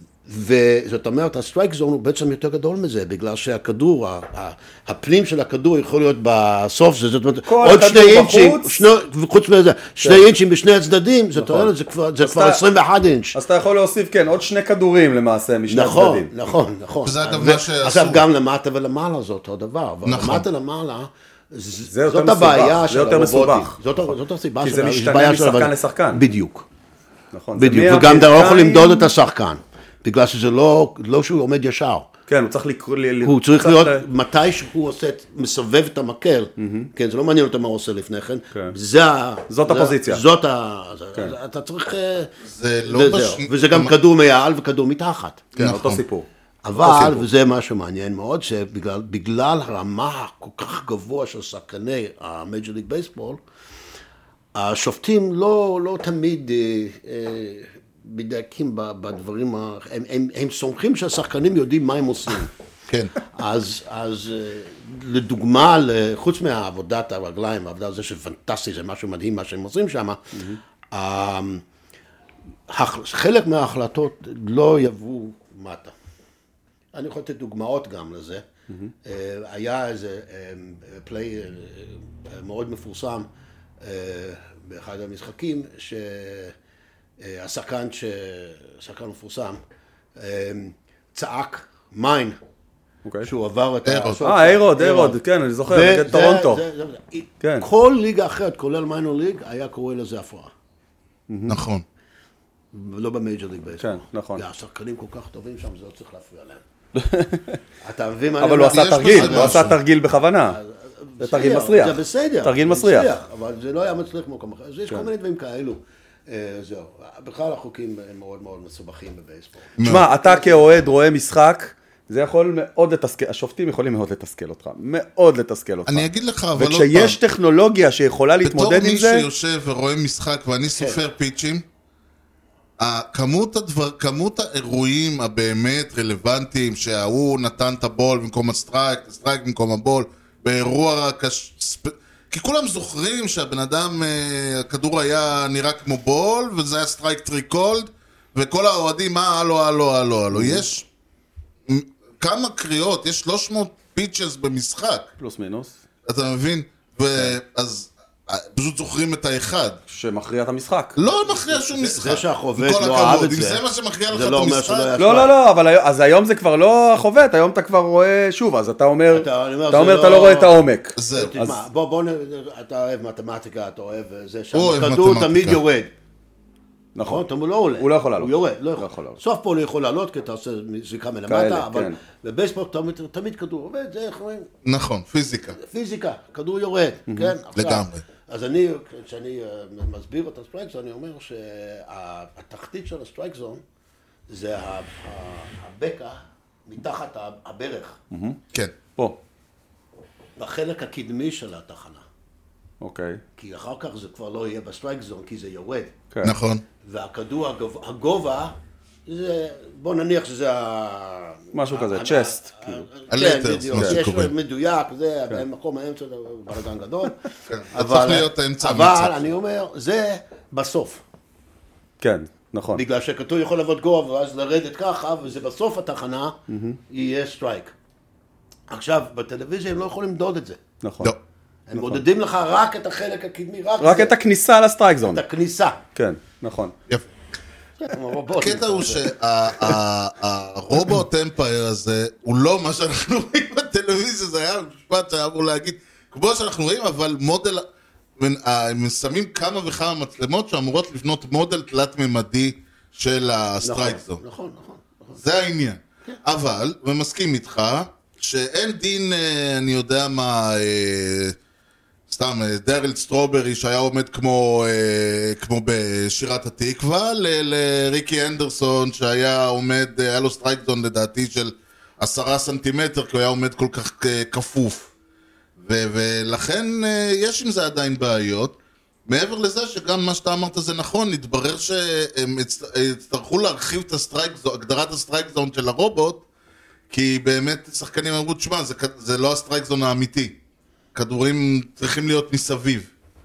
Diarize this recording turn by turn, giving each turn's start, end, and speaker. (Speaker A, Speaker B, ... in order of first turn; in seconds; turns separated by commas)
Speaker A: 0.2-13.4, Speaker B: 7.5-8.8, Speaker B: 11.3-12.6, Speaker B: 13.3-16.4, Speaker A: 15.7-26.6, Speaker C: 17.0-18.2, Speaker C: 20.0-20.4, Speaker B: 21.9-23.7, Speaker B: 24.6-26.2, Speaker B: 27.3-29.1, Speaker A: 27.6-32.1, Speaker B: 32.3-34.0, Speaker A: 33.2-42.3, Speaker B: 36.6-36.9, Speaker B: 39.5-40.2, Speaker C: 42.4-43.9, Speaker A: 42.9-45.5, Speaker C: 45.5-46.0, Speaker B: 45.5-46.2, Speaker A: 46.6-53.4, Speaker C: 46.8-47.2, Speaker A: 54.5-62.5, Speaker A: 63.3-71.6, Speaker A: 72.7-75.9, Speaker A: 76.9-78.4, Speaker A: 79.0-83.3, Speaker A: 83.8-86.5, Speaker A: 87.2-89.6, Speaker A: 90.2-92.4, Speaker A: 93.2-100.5, Speaker C: 93.8-94.2, Speaker B: 94.2-96.6, Speaker B: 97.4-97.7, Speaker B: 101.3-101.6, Speaker C: 101.5-101.8, Speaker A: 102.7-106.6, Speaker B: 103.8-104.4, Speaker B: 106.9-107.6, Speaker A: 107.8-109.7, Speaker B: 108.4-110.6, Speaker C: 108.7-109.8, Speaker A: 110.5-120.7, Speaker B: 111.2-113.1, Speaker C: 119.8-120.1, Speaker B: 119.8-129.2, Speaker C: 125.9-127.2, Speaker C: 128.4-131.6, Speaker C: 132.8-150.8, Speaker B: 150.3-150.6, Speaker C: 151.7-155.1, Speaker B: 155.2-155.7, Speaker C: 156.0-159.8, Speaker B: 159.9-161.0, Speaker C: 161.0-164.9, Speaker A: 161.5-165.3, Speaker B: 165.0-171.6, Speaker A: 169.1-170.5, Speaker C: 170.9-171.4, Speaker A: 171.1-175.9, Speaker C: 174.5-175.6, Speaker B: 176.9-177.2, Speaker A: 177.0-184.5, Speaker B: 177.8-179.2, Speaker B: 181.3-181.9, Speaker C: 184.6-185.6, Speaker A: 185.6-193.6, Speaker C: 187.5-188.0, Speaker A: 194.3-198.0, Speaker B: 198.1-198.4, Speaker A: 200.4-202.0, Speaker B: 202.8-203.2, Speaker A: 203.4-205.9, Speaker C: 206.2-206.6, Speaker A: 206.8-217.2, Speaker B: 211.5-212.8, Speaker C: 213.1-214.3, Speaker C: 217.5-219.2, Speaker A: 217.7-221.0, Speaker B: 222.0-222.8, Speaker A: 222.7-227.7, Speaker B: 226.5-226.8, Speaker A: 228.7-230.6, Speaker B: 230.8-231.1, Speaker A: 231.7-234.1, Speaker B: 231.7-232.0, Speaker B: 233.8-235.2, Speaker A: 235.1-235.8, Speaker B: 235.9-236.7, Speaker A: 237.8-239.1, Speaker C: 238.4-247.6, Speaker C: 248.2-254.2, Speaker A: 253.6-255.2, Speaker C: 255.2-261.4, Speaker C: 262.1-274.9, Speaker C: 275.6-278.6, Speaker C: 279.1-286.2, Speaker C: 286.9-290.4, Speaker C: 290.9-292.9